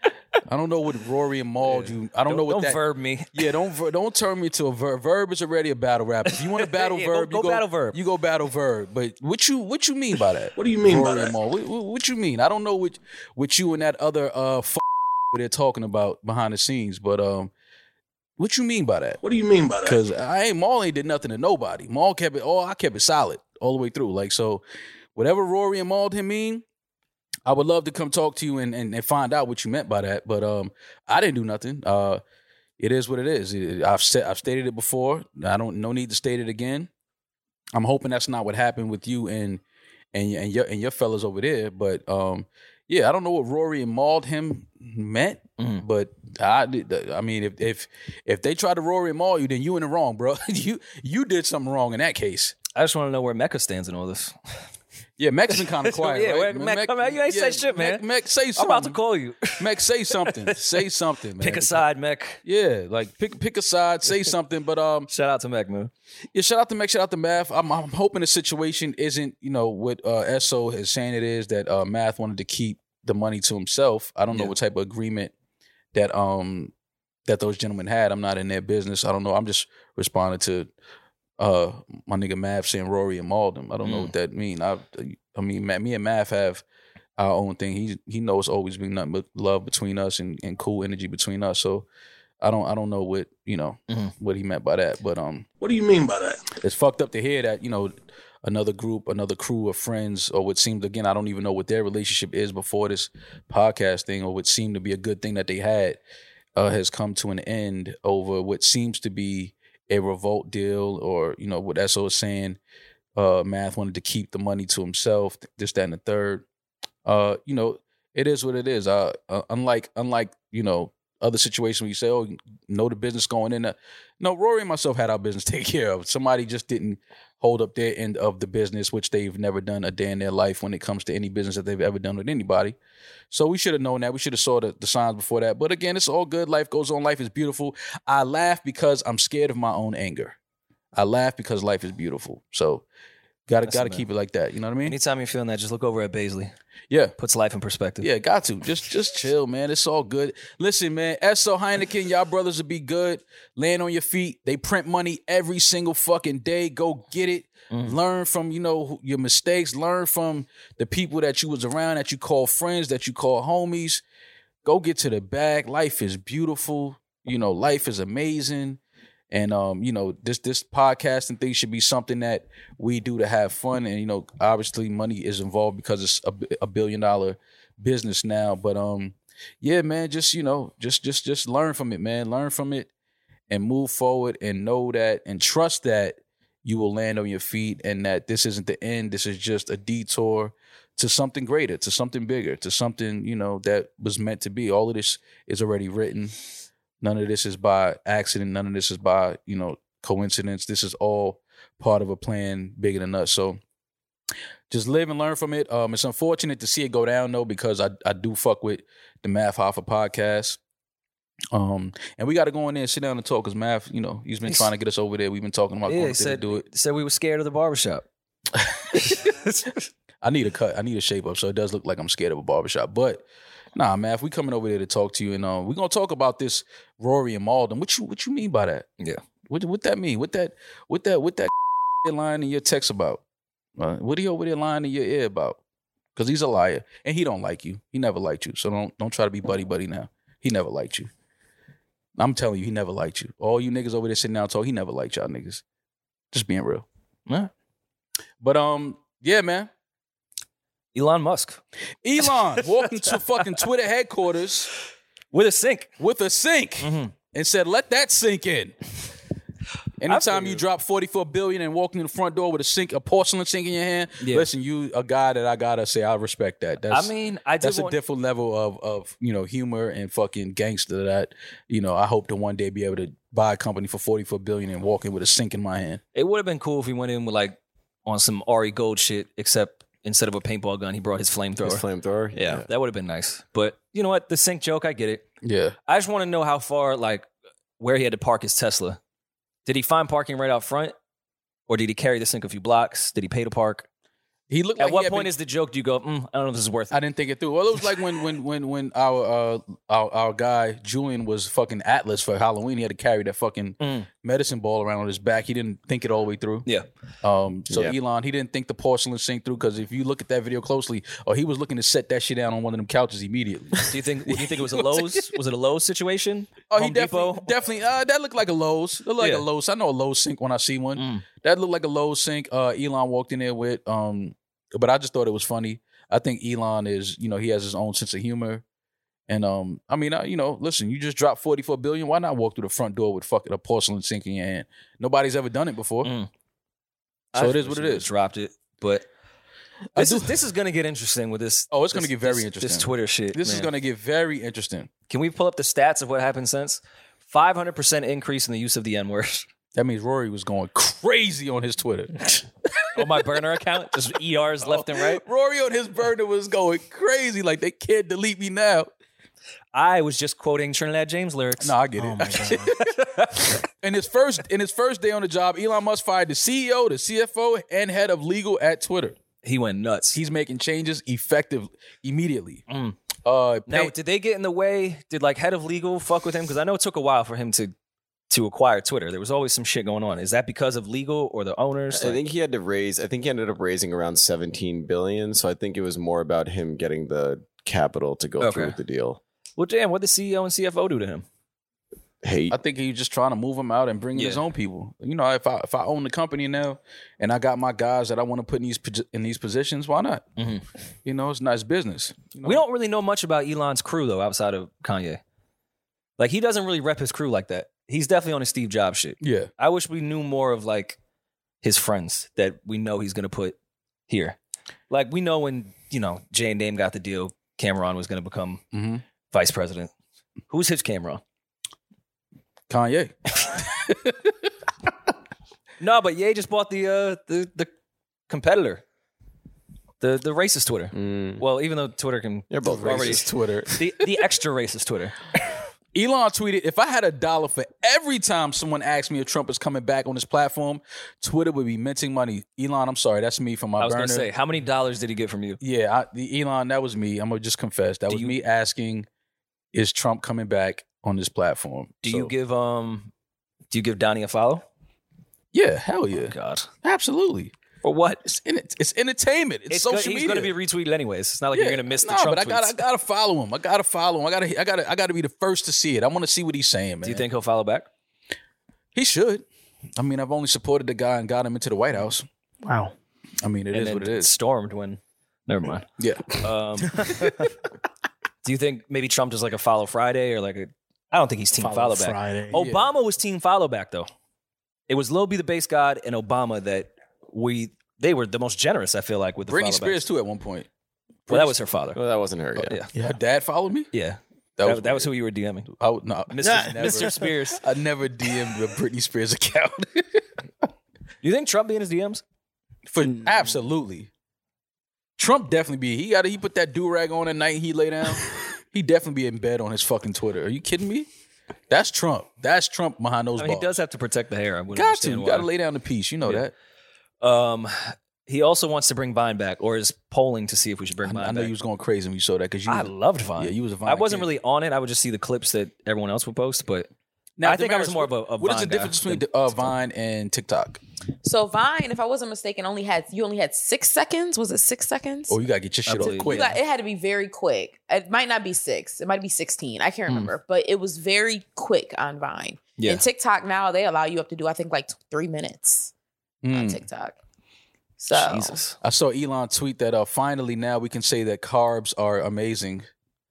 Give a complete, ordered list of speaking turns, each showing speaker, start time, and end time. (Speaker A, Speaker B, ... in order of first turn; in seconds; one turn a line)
Speaker A: 0.5-2.8
Speaker B: 1.6-3.5
Speaker A: 3.3-17.5
Speaker B: 6.5-8.0
Speaker C: 10.6-11.3
Speaker A: 18.4-19.2
Speaker C: 19.2-20.0
Speaker A: 19.8-24.6
Speaker A: 25.1-26.6
Speaker A: 27.4-32.2
Speaker A: 32.8-36.9
Speaker A: 37.7-39.6
Speaker A: 40.1-52.5
Speaker B: 45.6-45.8
Speaker B: 52.7-54.4
Speaker A: 55.2-59.0
Speaker B: 55.5-60.8
Speaker A: 59.6-61.8
Speaker B: 61.4-62.4
Speaker A: 62.4-65.1
Speaker B: 65.1-65.9
Speaker A: 66.3-75.3
Speaker A: 75.9-76.7
Speaker A: 77.3-80.7
Speaker A: 81.4-86.6
Speaker B: 83.8-84.1
Speaker A: 87.2-91.8
Speaker A: 92.4-95.5
Speaker B: 93.9-94.1
Speaker C: 95.6-96.4
Speaker A: 96.6-106.0
Speaker A: 106.5-112.6
Speaker A: 113.2-116.4
Speaker A: 117.0-132.8
Speaker A: 133.3-140.3
Speaker A: 140.9-142.8
Speaker A: 143.5-144.9
Speaker B: 143.7-144.1
Speaker B: 144.8-146.5
Speaker B: 147.2-148.1
Speaker A: 148.0-164.0
Speaker B: 157.7-158.0
Speaker A: 164.6-168.8
Speaker A: 169.3-182.9
Speaker A: 183.5-196.3
Speaker A: 197.0-203.6
Speaker A: 204.7-210.6
Speaker A: 211.5-216.6
Speaker B: 215.9-218.1
Speaker A: 218.5-219.2
Speaker B: 218.9-219.8
Speaker A: 220.2-228.8
Speaker A: 229.5-233.2
Speaker A: 233.8-235.6
Speaker A: 236.2-241.1
Speaker A: 242.2-245.6
Speaker A: 246.3-246.8
Speaker A: 248.4-249.7
Speaker B: 250.9-251.6
Speaker A: 252.0-254.7
Speaker B: 252.5-252.8
Speaker B: 255.3-255.9
Speaker A: 256.0-258.8
Speaker B: 256.8-257.1
Speaker A: 260.0-276.0
Speaker B: 260.1-260.6
Speaker B: 264.2-264.5
Speaker B: 266.9-268.0
Speaker B: 276.1-281.8
Speaker D: 281.6-282.7
Speaker B: 282.3-285.2
Speaker A: 285.4-285.8
Speaker B: 285.9-287.3
Speaker B: 287.8-289.0
Speaker B: 289.6-290.9
Speaker B: 291.7-293.9
Speaker A: 294.5-295.3
Speaker B: 294.8-297.0
Speaker A: 296.9-306.6
Speaker B: 303.8-304.1
Speaker A: 307.2-315.2
Speaker D: 307.7-307.9
Speaker B: 313.9-317.5
Speaker A: 316.7-328.6
Speaker B: 319.2-319.4
Speaker B: 320.9-321.2
Speaker A: 329.3-336.1
Speaker B: 336.0-336.3
Speaker B: 337.3-339.0
Speaker A: 337.3-338.1
Speaker A: 339.9-340.3
Speaker B: 339.9-343.7
Speaker A: 341.7-344.9
Speaker B: 345.1-349.5
Speaker A: 349.7-352.4
Speaker B: 352.9-355.2
Speaker A: 354.6-358.9
Speaker B: 359.7-361.7
Speaker A: 361.6-362.8
Speaker E: 362.0-362.7
Speaker B: 362.8-363.6
Speaker A: 363.8-369.2
Speaker B: 369.4-370.2
Speaker A: 370.1-372.6
Speaker B: 372.7-373.0
Speaker A: 373.2-373.9
Speaker B: 373.7-377.7
Speaker B: 378.3-382.2
Speaker D: 381.9-389.2
Speaker B: 388.4-388.8
Speaker B: 389.6-391.2
Speaker D: 392.2-392.6
Speaker A: 392.5-400.2
Speaker B: 394.1-394.4
Speaker B: 400.4-400.6
Speaker A: 401.0-402.6
Speaker B: 402.4-405.2
Speaker B: 406.2-411.0
Speaker A: 409.2-409.5
Speaker B: 411.6-413.6
Speaker B: 414.1-414.4
Speaker B: 414.9-418.6
Speaker A: 418.7-419.0
Speaker B: 419.3-419.9
Speaker B: 420.5-421.2
Speaker A: 422.7-424.3
Speaker B: 425.8-427.7
Speaker B: 428.3-428.8
Speaker B: 430.0-435.2
Speaker D: 430.9-431.4
Speaker D: 432.5-433.3
Speaker A: 432.6-433.7
Speaker A: 435.9-444.3
Speaker B: 443.8-445.6
Speaker A: 445.6-449.1
Speaker B: 448.1-448.3
Speaker A: 449.7-452.3
Speaker B: 452.0-453.1
Speaker B: 453.7-454.6
Speaker A: 455.5-457.5
Speaker B: 456.3-456.7
Speaker B: 457.8-458.2
Speaker A: 458.2-460.5
Speaker B: 459.7-462.8
Speaker A: 461.5-467.2
Speaker B: 467.0-467.9
Speaker A: 468.9-469.4
Speaker A: 470.0-472.3
Speaker E: 472.6-472.9
Speaker A: 473.4-474.3
Speaker B: 473.7-475.9
Speaker A: 476.0-476.4
Speaker B: 476.4-477.5
Speaker A: 477.1-477.4
Speaker B: 478.4-484.1
Speaker E: 481.6-482.6
Speaker A: 482.5-482.9
Speaker B: 484.9-490.0
Speaker A: 489.5-490.7
Speaker A: 491.3-491.5
Speaker B: 491.3-492.0
Speaker D: 491.9-492.8
Speaker B: 492.6-492.9
Speaker A: 493.0-493.9
Speaker B: 493.9-495.7
Speaker A: 494.6-495.1
Speaker A: 495.7-500.2
Speaker B: 496.3-497.6
Speaker E: 496.4-497.1
Speaker B: 501.2-502.2
Speaker A: 502.9-504.1
Speaker A: 505.2-511.1
Speaker A: 511.7-513.7
Speaker B: 513.4-515.5
Speaker A: 514.7-516.5
Speaker B: 517.2-521.5
Speaker A: 521.0-524.3
Speaker B: 522.7-526.9
Speaker A: 527.4-530.8
Speaker B: 527.4-529.7
Speaker F: 531.2-535.4
Speaker A: 535.3-536.6
Speaker B: 535.9-536.5
Speaker F: 536.0-545.9
Speaker A: 540.1-540.3
Speaker B: 542.8-543.0
Speaker A: 546.4-546.8
Speaker F: 546.5-547.2
Speaker F: 548.0-548.6
Speaker B: 548.1-548.8
Speaker A: 548.8-552.9